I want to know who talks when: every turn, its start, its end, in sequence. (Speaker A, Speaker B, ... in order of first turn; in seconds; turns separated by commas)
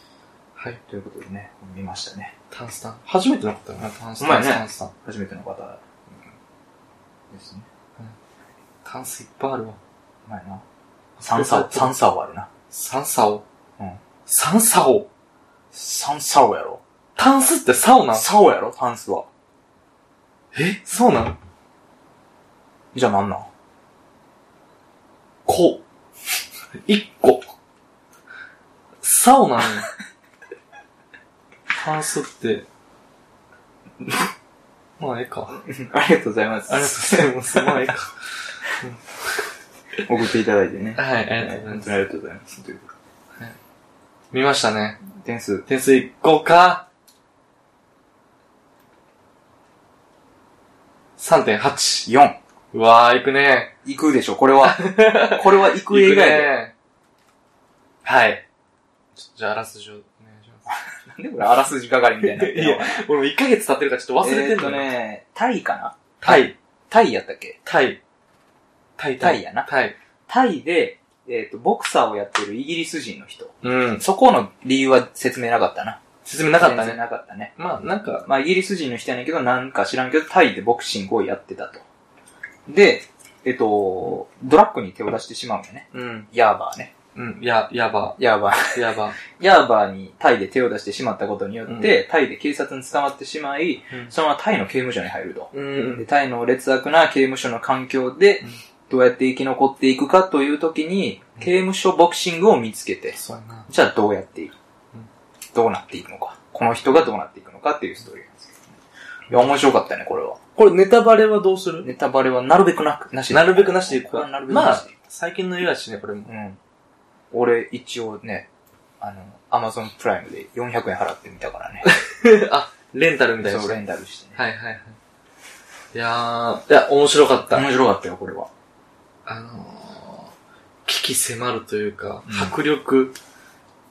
Speaker A: 0.9-2.3, Speaker B: 2.5-4.9, Speaker A: 4.2-5.8, Speaker A: 7.3-7.7, Speaker B: 8.8-9.8, Speaker A: 10.3-10.6, Speaker B: 11.2-11.9, Speaker A: 11.2-12.5, Speaker B: 12.7-13.4, Speaker B: 14.2-15.1, Speaker A: 15.7-16.8, Speaker B: 17.1-18.3, Speaker A: 18.1-19.3, Speaker B: 20.5-21.4, Speaker A: 22.9-23.5, Speaker B: 25.4-25.8, Speaker B: 26.7-27.4, Speaker B: 29.0-29.9, Speaker B: 31.7-32.7, Speaker B: 35.0-35.6, Speaker A: 35.6-37.9, Speaker B: 36.7-38.1, Speaker B: 38.8-39.1, Speaker A: 40.0-42.9, Speaker B: 41.0-42.0, Speaker B: 44.3-45.0, Speaker A: 45.1-45.6, Speaker B: 45.7-46.9, Speaker B: 51.2-52.1, Speaker A: 52.0-52.4, Speaker B: 52.7-53.7, Speaker A: 53.8-56.5, Speaker B: 54.6-56.7, Speaker B: 58.0-58.4, Speaker B: 59.1-60.6, Speaker A: 60.7-63.0, Speaker B: 62.2-64.9, Speaker A: 64.2-67.6, Speaker B: 66.2-66.5, Speaker B: 67.6-68.0, Speaker B: 69.0-69.9, Speaker A: 69.2-69.7, Speaker A: 70.3-76.0, Speaker B: 73.6-74.0, Speaker B: 76.2-77.0, Speaker A: 76.6-77.5, Speaker B: 77.5-78.2, Speaker A: 78.2-81.8, Speaker A: 82.7-86.9, Speaker B: 85.9-86.3, Speaker B: 87.1-89.2, Speaker A: 88.2-103.2, Speaker B: 95.5-96.0, Speaker B: 103.1-103.7, Speaker A: 103.7-104.5, Speaker A: 105.5-108.6, Speaker A: 109.3-110.4, Speaker B: 110.5-111.9, Speaker A: 111.8-114.9, Speaker B: 113.3-116.3, Speaker A: 116.3-116.6, Speaker A: 117.3-118.5, Speaker A: 119.0-121.9, Speaker B: 121.8-123.8, Speaker A: 123.4-124.4, Speaker B: 124.3-125.0, Speaker B: 125.9-127.7, Speaker A: 127.5-128.5, Speaker B: 129.2-130.3, Speaker B: 130.8-133.2, Speaker A: 132.2-132.5